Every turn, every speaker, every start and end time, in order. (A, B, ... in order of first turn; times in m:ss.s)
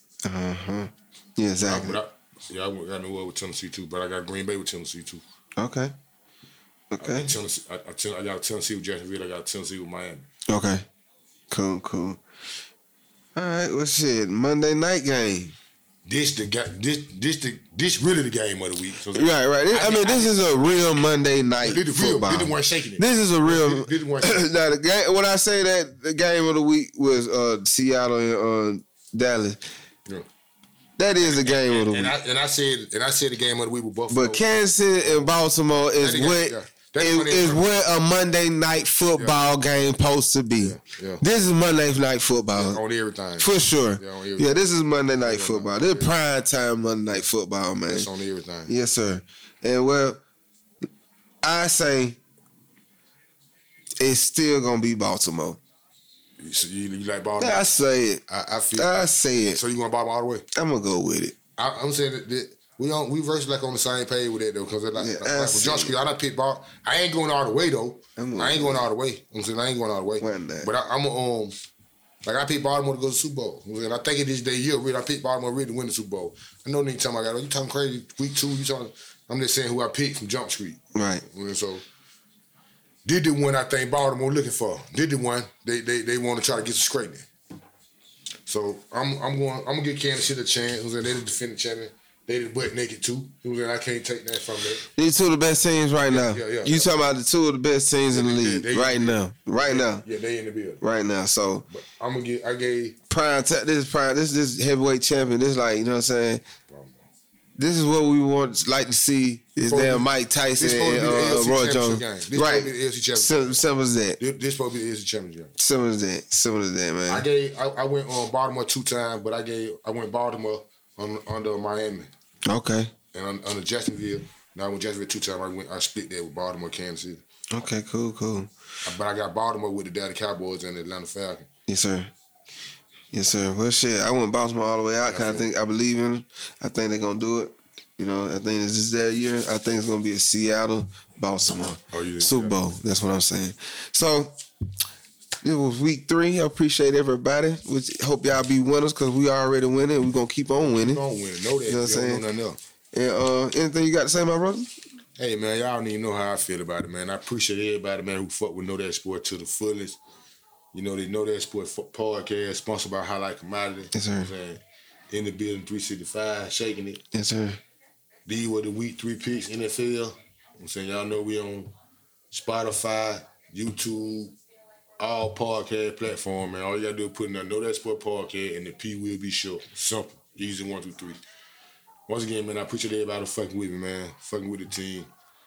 0:00.2-0:02.0 A
0:01.6-0:05.2 B
0:05.6-0:06.0 A
0:06.9-0:07.4 A
0:07.0-0:10.3 B
0:10.5-0:10.9 A
0:11.5-0:12.2 A
0:13.4-0:15.6 A
0:16.1-0:20.8 B
0:19.1-0:29.6 A
0:21.6-0:24.4 B
0:31.0-0:32.2 A
0:31.2-0:34.4 B
0:34.1-0:42.8 A
0:36.0-0:37.8 B
0:40.6-0:41.2 B
0:42.5-0:44.7 B
0:43.4-0:48.1 A
0:45.2-0:46.1 B
0:47.9-0:48.7 B
0:48.7-0:50.2 A
0:51.4-0:52.2 A
0:54.0-0:55.6 A
0:56.4-0:57.7 B
0:57.4-0:58.2 A
0:58.3-0:58.9 B
0:58.8-0:59.6 A
0:59.5-1:00.5 B
1:00.5-1:01.4 A
1:01.6-1:11.6 B
1:05.0-1:06.0 A
1:08.2-1:08.8 A
1:10.2-1:10.7 A
1:12.2-1:21.9 B
1:20.9-1:21.2 A
1:23.0-1:27.3 B
1:28.5-1:34.9 B
1:34.9-1:40.0 A
1:36.1-1:37.0 B
1:38.1-1:40.8 B
1:40.8-1:41.7 A
1:41.7-1:43.0 B
1:43.1-1:46.4 A
1:46.7-1:47.0 B
1:47.6-1:54.2 A
1:49.7-1:53.6 B
1:54.2-1:55.5 B
1:55.6-1:57.3 A
1:57.1-2:02.1 B
2:02.5-2:02.9 A
2:03.1-2:07.2 B
2:07.5-2:08.5 A
2:08.8-2:11.5 B
2:11.7-2:12.1 A
2:13.1-2:24.4 A
2:15.1-2:15.5 B
2:21.9-2:22.6 B
2:25.4-2:31.0 A
2:30.8-2:32.6 B
2:31.7-2:32.2 A
2:32.9-2:34.7 A
2:35.2-2:40.0 B
2:40.7-2:47.0 B
2:43.9-2:44.3 A
2:47.1-2:47.6 A
2:48.3-2:51.7 B
2:52.3-2:54.4 B
2:55.0-3:01.2 B
3:02.1-3:05.1 B